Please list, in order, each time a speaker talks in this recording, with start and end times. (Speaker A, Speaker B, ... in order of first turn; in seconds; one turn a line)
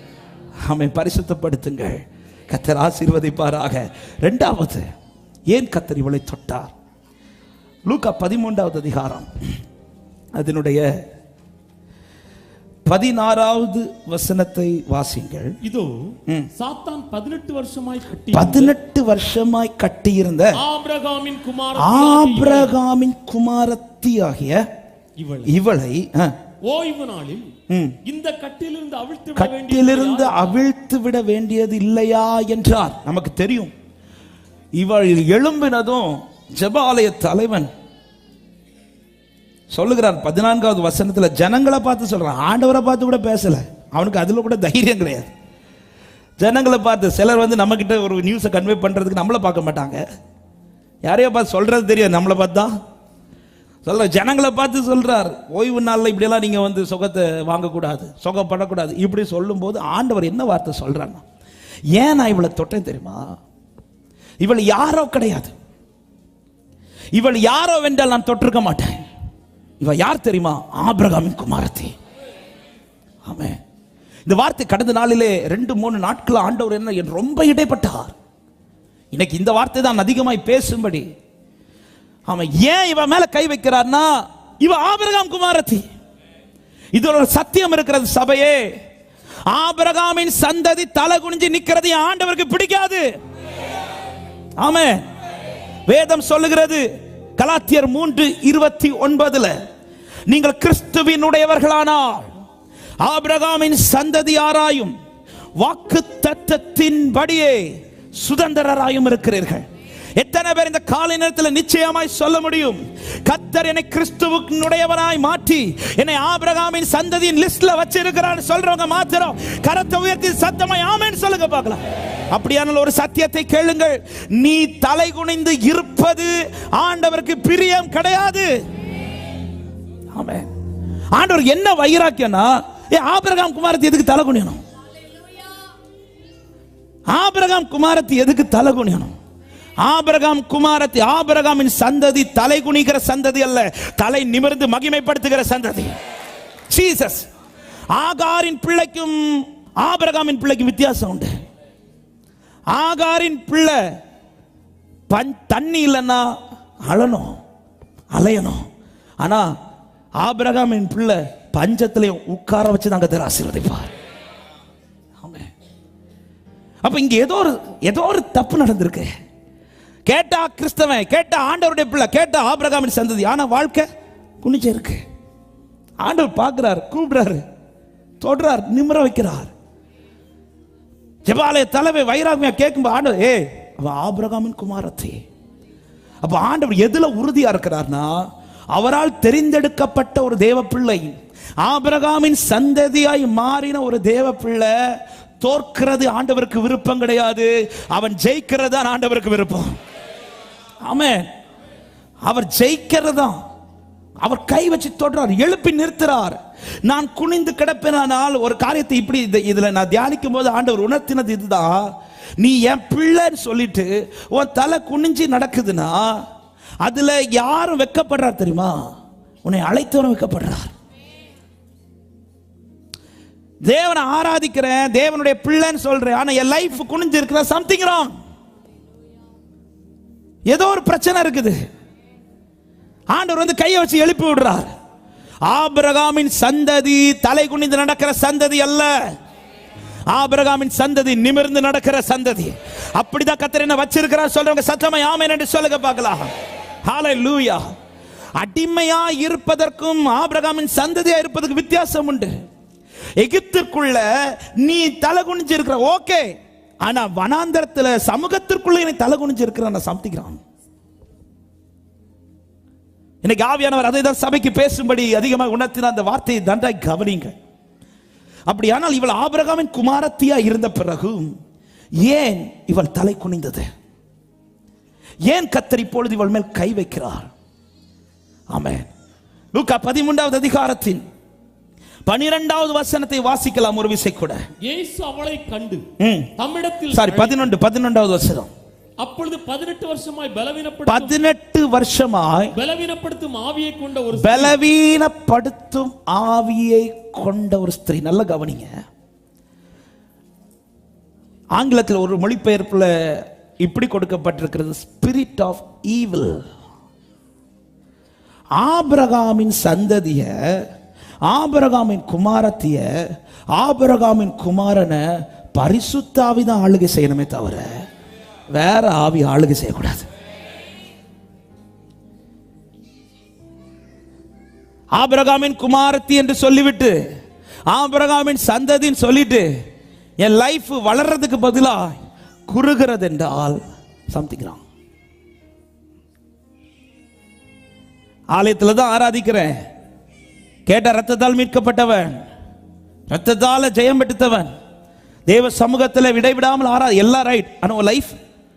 Speaker A: 0.6-4.9
Speaker A: 5.5-6.7
Speaker A: 7.9-9.3
Speaker A: 10.4-10.9
Speaker A: 12.9-15.6
Speaker B: 15.6-18.8
Speaker A: 18.3-20.6
Speaker B: 20.6-22.7
Speaker A: 21.8-24.7
Speaker B: 25.2-25.5
Speaker A: 25.5-26.3
Speaker B: 26.7-27.5
Speaker A: 27.7-28.0
Speaker B: 28.1-30.6
Speaker A: 29.4-33.7
Speaker A: 34.8-37.7
Speaker A: 39.7-45.3
Speaker A: 46.4-50.0
Speaker A: 51.0-52.7
Speaker A: 53.9-61.2
Speaker A: 62.0-63.4
Speaker A: 64.4-65.5
Speaker A: 67.2-69.0
Speaker A: 69.8-72.0
Speaker A: 73.2-73.6
Speaker A: 74.3-78.1
Speaker A: 79.1-81.0
Speaker A: 82.3-85.9
Speaker A: 86.9-88.7
Speaker A: 89.5-93.1
Speaker A: 94.6-95.0
Speaker A: 95.9-96.8
Speaker A: 97.4-99.5
Speaker A: 100.3-102.3
Speaker A: 103.0-104.9
Speaker A: 105.6-109.7
Speaker A: 110.2-128.5
Speaker A: 130.1-130.5
Speaker A: 131.2-134.6
Speaker A: 137.1-139.1
Speaker A: 139.8-145.9
Speaker A: 146.7-147.3
Speaker A: 147.9-151.3
Speaker A: 152.7-153.8
Speaker A: 155.1-156.3
Speaker A: 156.9-157.4
Speaker A: 158.1-158.7
Speaker A: 159.2-159.5
Speaker A: 160.2-163.9
Speaker A: 165.2-165.5
Speaker A: 166.8-169.1
Speaker A: 170.1-173.9
Speaker A: 174.4-175.0
Speaker A: 176.0-177.4
Speaker A: 178.2-179.5
Speaker A: 181.3-185.2
Speaker A: 186.2-194.7
Speaker A: 195.4-199.8
Speaker A: 200.8-201.3
Speaker A: 202.2-203.4
Speaker A: 204.2-216.2
Speaker A: 216.8-218.8
Speaker A: 219.4-220.7
Speaker A: 223.6-228.1
Speaker A: 230.5-231.6
Speaker A: 233.1-234.7
Speaker A: 235.5-238.9
Speaker A: 240.1-246.3
Speaker A: 246.8-247.6
Speaker A: 248.4-252.3
Speaker A: 253.2-256.3
Speaker A: 256.8-260.4
Speaker A: 263.2-267.4
Speaker A: 268.5-271.4
Speaker A: 272.0-273.6
Speaker A: 275.3-277.3
Speaker A: 278.5-278.9
Speaker A: 279.5-281.0
Speaker A: 282.1-284.4
Speaker B: 284.6-285.9
Speaker A: 286.0-286.3
Speaker B: 286.4-287.5
Speaker A: 286.9-288.5
Speaker B: 289.0-291.2
Speaker A: 290.9-292.5
Speaker B: 292.5-294.6
Speaker A: 294.1-298.7
Speaker A: 301.6-306.4
Speaker A: 308.6-310.6
Speaker A: 311.3-312.9
Speaker A: 313.5-317.7
Speaker A: 318.5-320.1
Speaker A: 324.9-327.0
Speaker A: 327.7-329.5
Speaker A: 330.2-332.0
Speaker A: 332.5-334.6
Speaker A: 338.3-339.6
Speaker A: 340.7-342.2
Speaker A: 343.1-344.5
Speaker A: 345.3-348.1